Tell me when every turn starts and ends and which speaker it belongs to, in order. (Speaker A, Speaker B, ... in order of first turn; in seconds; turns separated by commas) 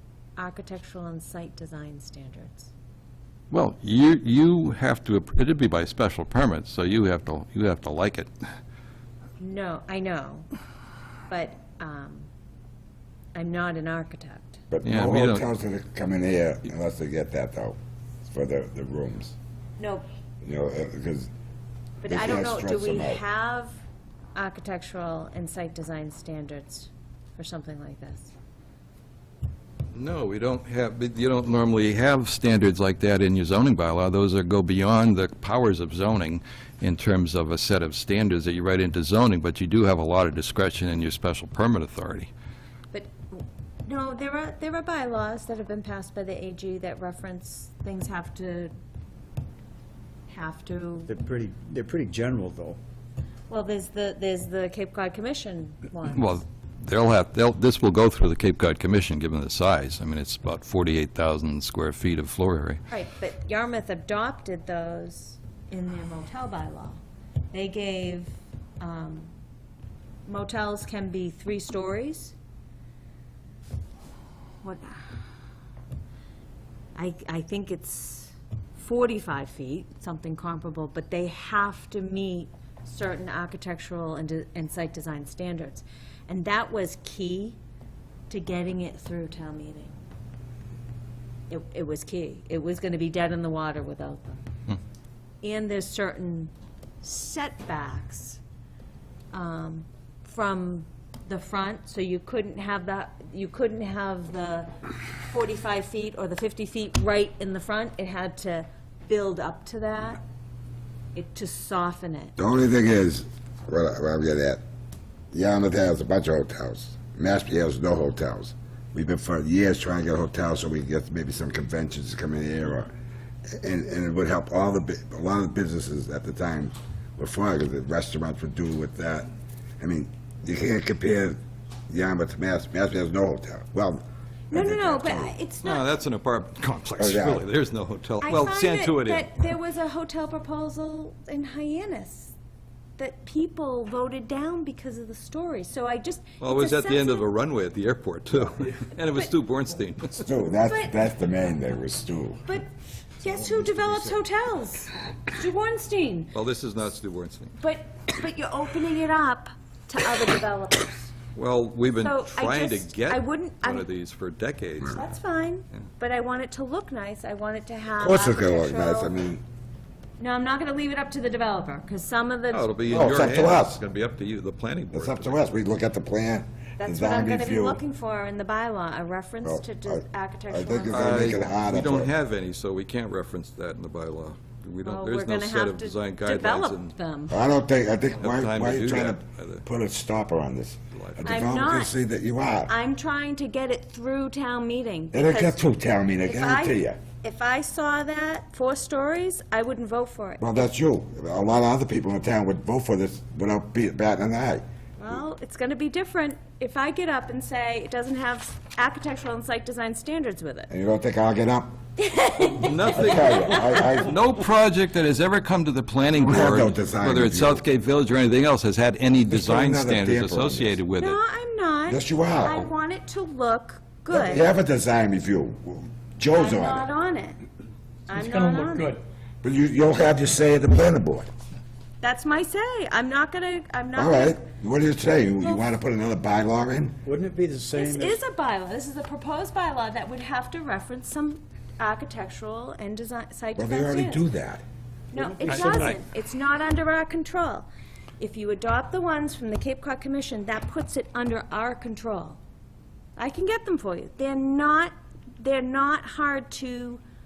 Speaker A: 0.3-2.7, Speaker B: 3.5-8.3, Speaker A: 9.4-10.5, Speaker A: 11.3-12.3, Speaker A: 13.3-14.6, Speaker C: 14.7-19.3, Speaker B: 14.8-15.4, Speaker A: 19.8-20.1, Speaker C: 20.4-21.3, Speaker A: 22.0-23.8, Speaker C: 22.1-23.2, Speaker A: 24.3-28.3, Speaker B: 29.9-42.3, Speaker A: 42.9-48.7, Speaker A: 50.3-51.1, Speaker D: 51.1-52.8, Speaker A: 53.5-56.3, Speaker B: 56.1-62.8, Speaker A: 62.9-67.0, Speaker A: 67.5-69.3, Speaker A: 70.2-72.3, Speaker A: 74.6-75.1, Speaker A: 76.9-87.6, Speaker A: 88.3-90.0, Speaker A: 91.5-94.4, Speaker A: 95.4-98.4, Speaker A: 99.3-110.2, Speaker A: 111.1-112.3, Speaker C: 112.4-114.6, Speaker C: 115.3-122.9, Speaker C: 123.5-129.3, Speaker C: 129.8-135.3, Speaker A: 134.5-135.9, Speaker B: 135.6-139.5, Speaker C: 137.0-137.5, Speaker A: 138.2-142.3, Speaker A: 143.0-147.2, Speaker B: 146.4-150.2, Speaker C: 150.2-152.5, Speaker A: 150.6-150.9, Speaker A: 153.2-156.3, Speaker D: 153.2-154.2, Speaker B: 156.3-157.5, Speaker A: 157.6-161.1, Speaker B: 161.3-165.0, Speaker A: 162.0-163.8, Speaker A: 164.8-169.2, Speaker C: 168.0-169.4, Speaker A: 170.2-172.8, Speaker B: 172.5-175.4, Speaker C: 172.9-173.8, Speaker C: 174.9-177.8, Speaker A: 176.8-181.4, Speaker C: 179.4-182.1, Speaker B: 180.9-186.9, Speaker A: 184.8-187.4, Speaker C: 187.3-192.7, Speaker B: 188.2-189.6, Speaker B: 190.9-191.4, Speaker A: 191.2-191.9, Speaker A: 192.7-195.6, Speaker C: 195.1-197.0, Speaker A: 196.2-200.6, Speaker C: 200.4-204.6, Speaker A: 205.0-210.7, Speaker C: 210.7-211.8, Speaker A: 212.0-214.0, Speaker B: 212.6-221.2, Speaker C: 212.9-214.2, Speaker C: 216.2-217.6, Speaker C: 219.3-220.8, Speaker A: 221.0-224.5, Speaker C: 221.9-222.7, Speaker C: 224.1-226.9, Speaker A: 226.3-227.4, Speaker A: 228.1-229.0, Speaker D: 228.1-229.0, Speaker C: 229.4-231.3, Speaker A: 232.0-234.4, Speaker C: 233.9-237.0, Speaker D: 237.0-238.2, Speaker A: 237.7-244.2, Speaker C: 243.5-244.6, Speaker A: 245.1-247.7, Speaker D: 245.1-245.9, Speaker B: 245.5-246.0, Speaker A: 248.2-252.4, Speaker A: 253.2-257.0